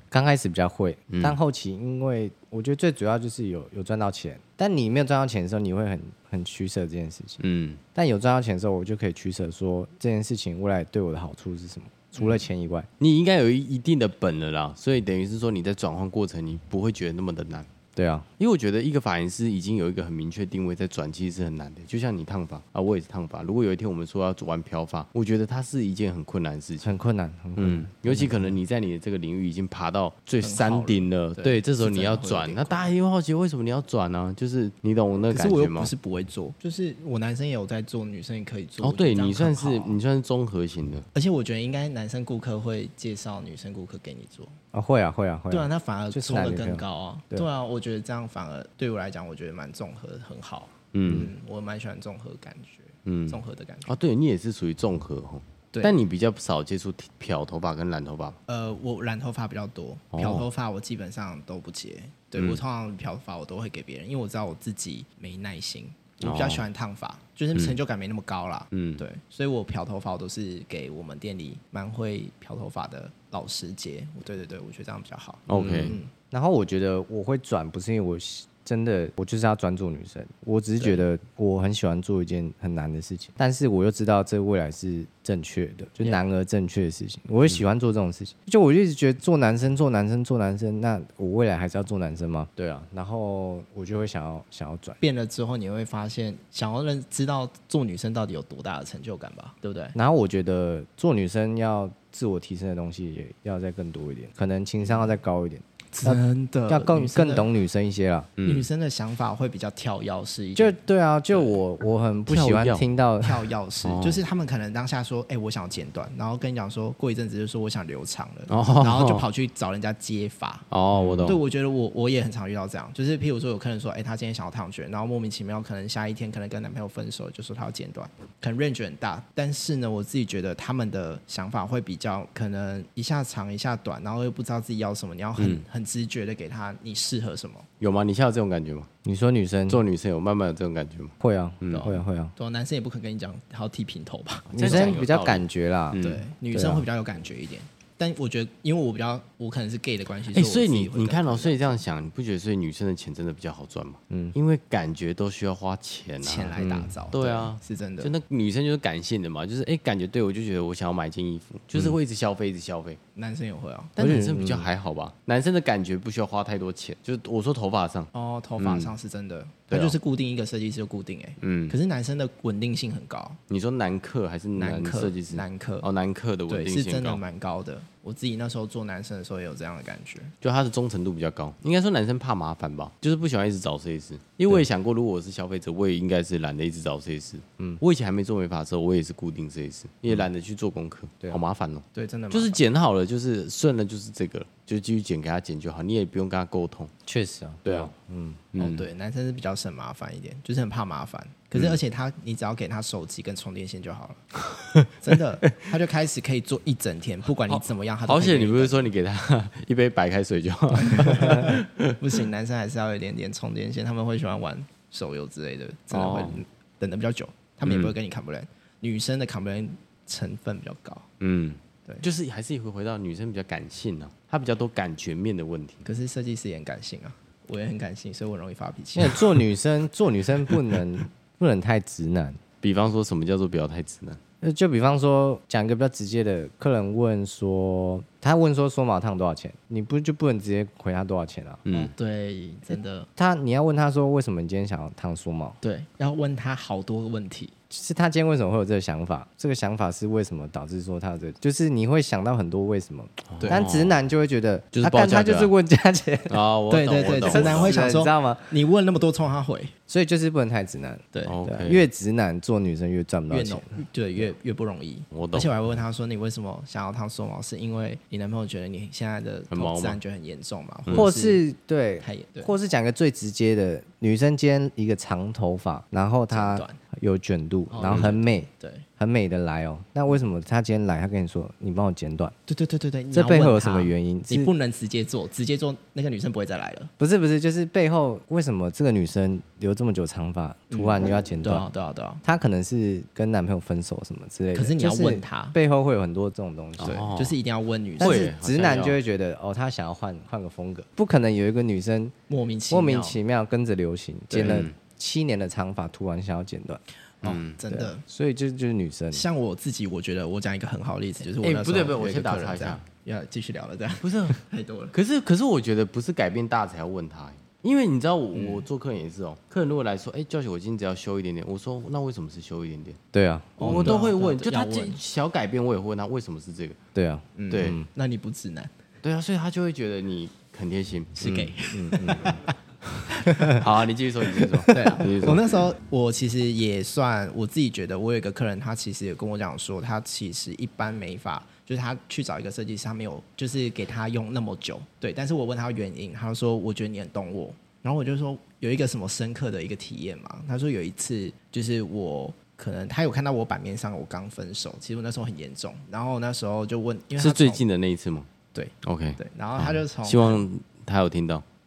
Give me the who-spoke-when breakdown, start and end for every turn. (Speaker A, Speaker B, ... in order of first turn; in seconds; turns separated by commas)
Speaker A: 0.1-7.4, Speaker B: 1.1-1.4, Speaker B: 7.4-7.8, Speaker A: 7.9-12.9, Speaker B: 13.0-17.7, Speaker A: 17.9-18.3, Speaker B: 18.4-26.9, Speaker A: 26.8-28.6, Speaker B: 27.6-35.9, Speaker C: 30.4-32.9, Speaker C: 35.3-40.0, Speaker B: 38.8-41.0, Speaker C: 41.1-44.5, Speaker A: 44.7-47.5, Speaker C: 45.5-54.0, Speaker B: 50.9-51.3, Speaker B: 53.0-58.4, Speaker C: 58.5-76.1, Speaker B: 60.1-60.5, Speaker B: 66.2-66.6, Speaker B: 68.7-69.0, Speaker B: 75.5-76.0, Speaker A: 75.5-95.0, Speaker C: 95.0-100.0, Speaker A: 99.9-108.3, Speaker C: 104.8-105.1, Speaker C: 105.9-107.5, Speaker B: 108.4-108.7, Speaker C: 108.4-110.8, Speaker A: 110.5-113.5, Speaker C: 111.3-111.6, Speaker B: 112.3-112.9, Speaker C: 113.2-120.7, Speaker B: 113.8-114.2, Speaker B: 118.5-119.2, Speaker B: 120.7-121.4, Speaker A: 120.9-121.4, Speaker C: 121.2-137.7, Speaker B: 135.4-135.6, Speaker B: 137.8-138.9, Speaker A: 139.0-139.8, Speaker B: 139.7-142.0, Speaker A: 141.2-142.3, Speaker C: 141.7-145.1, Speaker A: 144.5-146.0, Speaker B: 144.5-146.2, Speaker C: 146.0-151.8, Speaker A: 146.5-146.9, Speaker B: 150.3-163.0, Speaker A: 154.1-154.4, Speaker C: 156.2-158.1, Speaker A: 156.6-156.9, Speaker C: 163.1-164.0, Speaker B: 164.0-168.9, Speaker A: 164.0-164.7, Speaker C: 168.1-173.4, Speaker B: 169.7-170.0, Speaker B: 171.4-171.8, Speaker B: 173.5-177.2, Speaker C: 174.6-175.9, Speaker C: 176.5-180.3, Speaker B: 180.4-196.9, Speaker C: 191.9-192.6, Speaker A: 197.1-198.4, Speaker B: 198.5-198.9, Speaker C: 198.6-204.3, Speaker B: 204.5-204.9, Speaker C: 205.0-208.9, Speaker B: 207.5-211.9, Speaker C: 210.8-221.1, Speaker B: 215.9-216.4, Speaker B: 217.6-217.9, Speaker B: 221.2-225.8, Speaker C: 225.8-229.3, Speaker A: 228.9-232.4, Speaker B: 232.6-234.2, Speaker A: 234.4-241.7, Speaker B: 241.7-241.9, Speaker C: 241.7-243.1, Speaker A: 242.7-245.6, Speaker C: 245.6-247.5, Speaker A: 247.7-256.4, Speaker B: 253.3-254.0, Speaker C: 253.4-253.7, Speaker B: 254.7-255.5, Speaker B: 256.3-257.8, Speaker C: 256.7-259.7, Speaker A: 257.2-258.5, Speaker A: 259.9-264.2, Speaker C: 261.1-261.4, Speaker B: 261.2-261.9, Speaker C: 263.3-271.4, Speaker B: 265.1-265.5, Speaker B: 269.5-270.0, Speaker A: 270.9-282.3, Speaker C: 272.0-272.5, Speaker C: 276.3-276.8, Speaker C: 277.7-278.9, Speaker B: 277.8-278.1, Speaker C: 282.5-286.9, Speaker A: 283.1-284.5, Speaker A: 287.0-291.6, Speaker C: 290.7-292.2, Speaker A: 292.2-297.0, Speaker C: 294.5-295.5, Speaker B: 296.8-297.4, Speaker C: 296.8-298.8, Speaker B: 298.0-299.0, Speaker A: 298.0-302.1, Speaker C: 302.3-303.2, Speaker A: 302.7-306.8, Speaker C: 304.3-304.6, Speaker B: 304.3-304.7, Speaker C: 307.2-308.0, Speaker B: 307.2-307.6, Speaker A: 307.7-309.2, Speaker C: 309.1-314.9, Speaker B: 311.4-312.8, Speaker B: 314.0-314.4, Speaker B: 314.9-323.0, Speaker C: 318.3-318.6, Speaker A: 323.1-324.0, Speaker C: 323.6-325.0, Speaker B: 323.6-326.8, Speaker A: 326.9-327.9, Speaker C: 327.4-328.7, Speaker B: 327.5-327.8, Speaker B: 329.0-331.2, Speaker C: 331.1-332.5, Speaker A: 331.2-332.4, Speaker C: 333.1-333.7, Speaker B: 333.4-335.5, Speaker C: 334.3-357.6, Speaker B: 357.2-358.3, Speaker C: 358.5-360.4, Speaker B: 358.8-361.4